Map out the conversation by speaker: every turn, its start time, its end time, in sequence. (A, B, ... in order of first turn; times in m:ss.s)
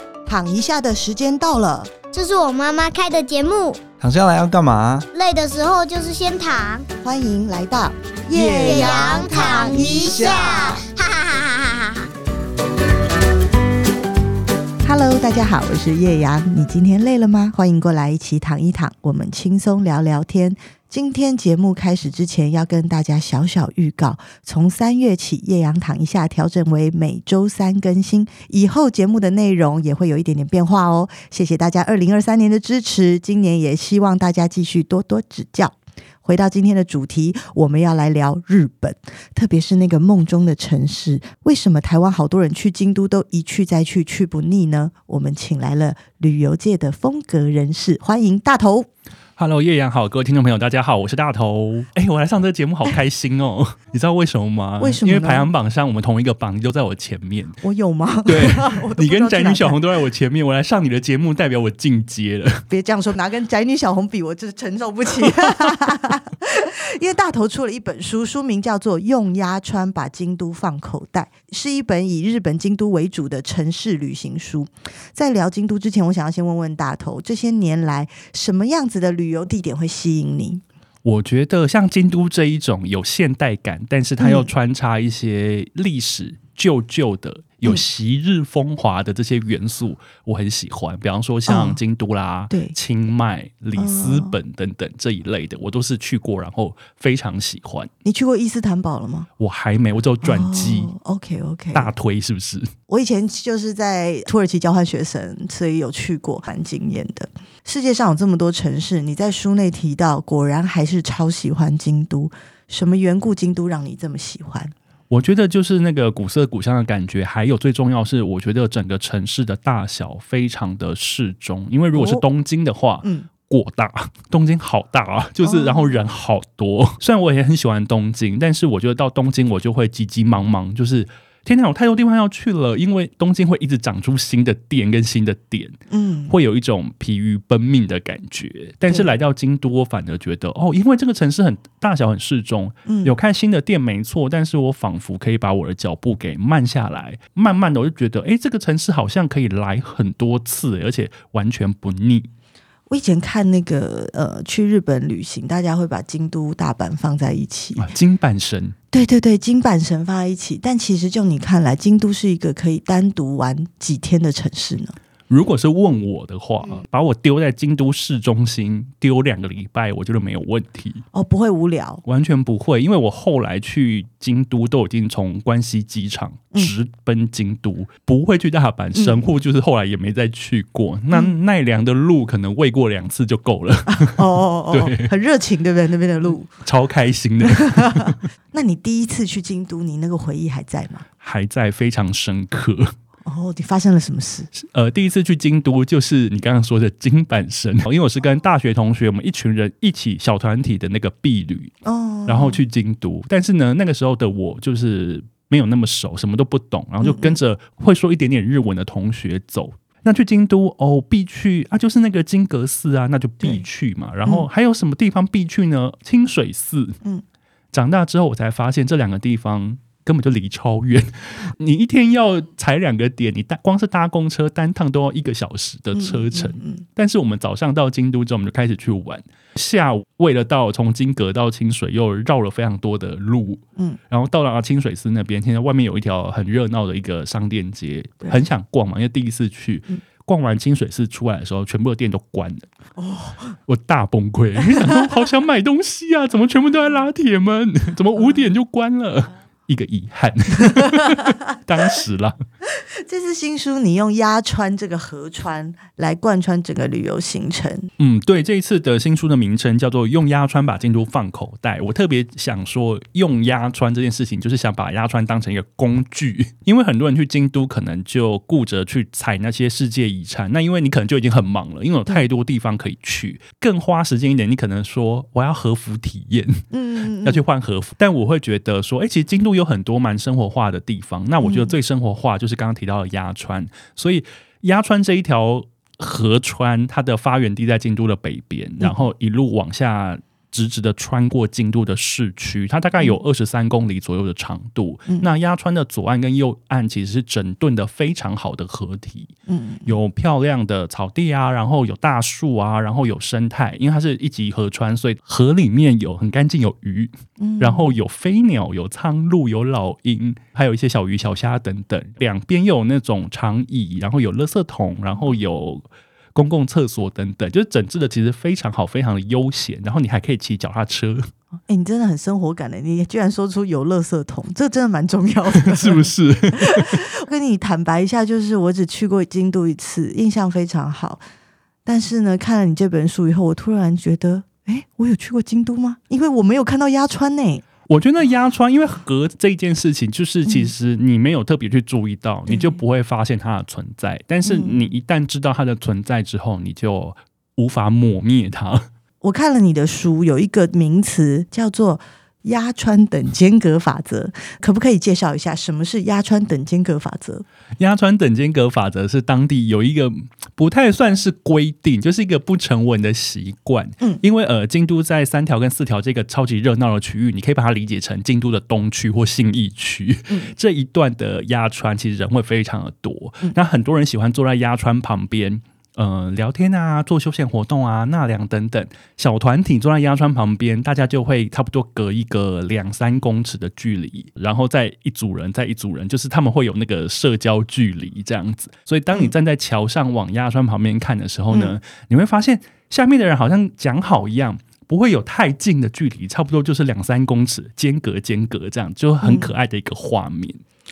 0:00.2-0:01.9 A
0:02.1-0:03.8 B
0:04.0-0:05.1 C
0:05.1-0:06.8 B
0:07.0-0:10.8 A
0:08.3-0:10.8 C
0:08.3-0:12.1 B
0:14.8-0:48.9 A
0:49.4-0:57.6 D
0:54.8-0:55.5 A
0:57.6-0:59.8 A
0:58.2-1:02.6 D
1:02.7-1:20.6 A
1:21.0-1:37.9 D
1:24.2-1:24.5 A
1:31.5-1:31.8 A
1:33.8-1:34.3 A
1:38.0-1:39.3 A
1:39.4-1:40.9 D
1:40.2-1:41.9 A
1:41.7-1:42.7 D
1:42.9-1:54.7 A
1:55.1-2:15.8 D
2:01.9-2:02.2 A
2:03.0-2:03.3 A
2:05.4-2:05.9 A
2:15.9-2:16.3 A
2:16.3-2:32.3 D
2:22.9-2:23.1 A
2:32.9-2:37.9 A
2:37.8-2:38.8 D
2:38.9-2:45.0 A
2:45.3-2:51.0 D
2:51.1-2:52.0 A
2:52.0-3:05.1 D
3:03.9-3:06.5 A
3:06.6-3:08.2 D
3:07.6-3:11.0 A
3:11.2-3:12.9 D
3:13.2-3:14.5 A
3:14.5-3:21.7 D
3:21.8-3:22.6 A
3:22.2-3:37.0 D
3:27.0-3:27.4 A
3:37.7-4:02.7 D
3:45.9-3:46.8 A
4:03.0-4:03.5 A
4:03.7-4:12.4 D
4:12.7-4:17.9 A
4:18.0-4:36.6 D
4:36.7-4:37.4 A
4:37.2-4:59.3 D
4:41.4-4:41.7 A
4:59.5-4:59.9 A
4:59.8-5:21.3 D
5:07.4-5:07.9 A
5:21.7-5:31.2 A
5:25.6-5:27.0 D
5:31.9-5:37.6 A
5:37.9-5:48.9 D
5:44.4-5:44.9 A
5:49.2-5:57.4 A
5:57.8-6:40.6 D
6:39.2-6:39.5 A